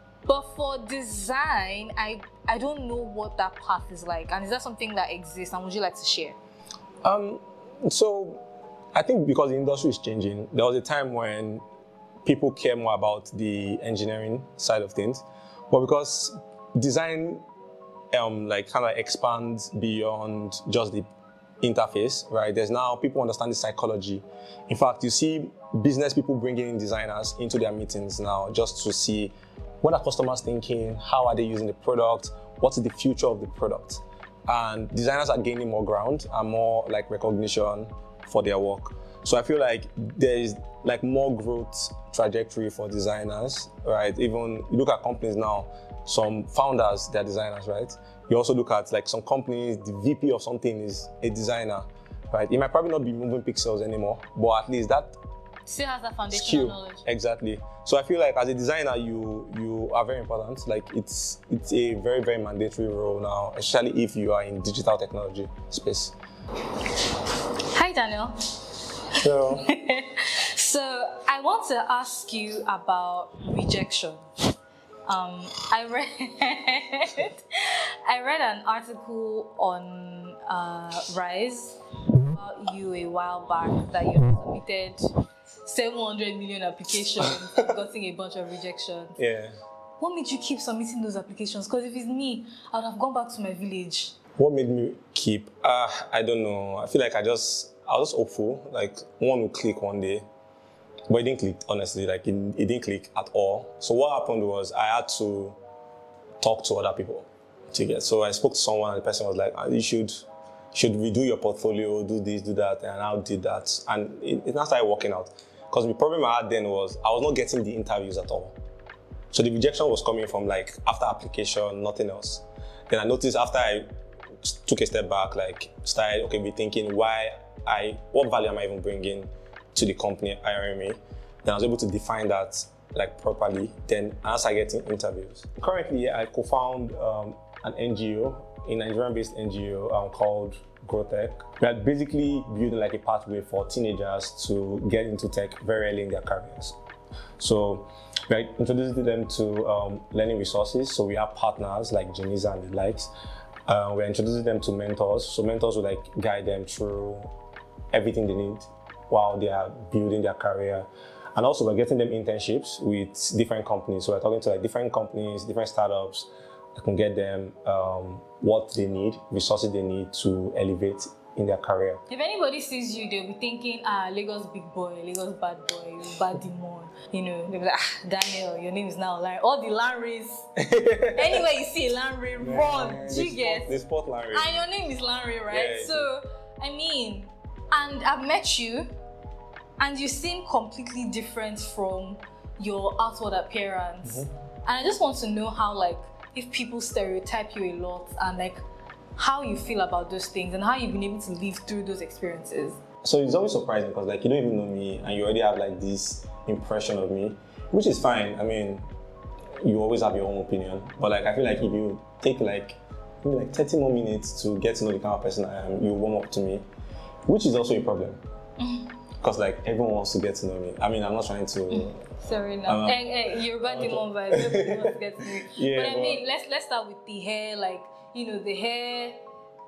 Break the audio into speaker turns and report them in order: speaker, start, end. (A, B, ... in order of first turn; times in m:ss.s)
0:00.2-0:06.4 A
0:07.0-0:11.6 B
0:12.2-0:17.4 B
0:18.1-0:21.1 B
0:21.6-0:55.2 B
0:55.7-0:57.0 A
0:56.3-1:06.2 B
1:07.7-1:08.8 A
1:09.2-1:09.7 B
1:09.3-1:14.2 A
1:15.1-1:17.4 A
1:18.1-1:25.1 A
1:25.6-1:29.2 A
1:29.2-1:29.6 B
1:30.0-1:34.2 A
1:34.4-1:40.2 B
1:41.1-1:45.6 B
1:46.4-1:58.6 B
1:59.3-2:03.9 B
2:04.4-2:26.8 B
2:27.4-2:33.1 B
2:33.7-2:37.3 B
2:37.9-2:52.0 B
2:52.1-3:00.5 A
3:00.6-3:01.5 B
3:01.1-3:03.8 A
3:02.4-3:04.6 B
3:04.3-3:08.9 A
3:05.5-3:06.1 B
3:09.8-3:18.6 A
3:14.0-3:14.3 B
3:19.2-3:22.8 A
3:23.0-3:28.8 B
3:29.6-3:36.6 B
3:37.3-3:38.2 B
3:38.6-3:38.9 A
3:39.2-3:42.0 B
3:41.7-3:49.2 A
3:42.7-3:46.2 B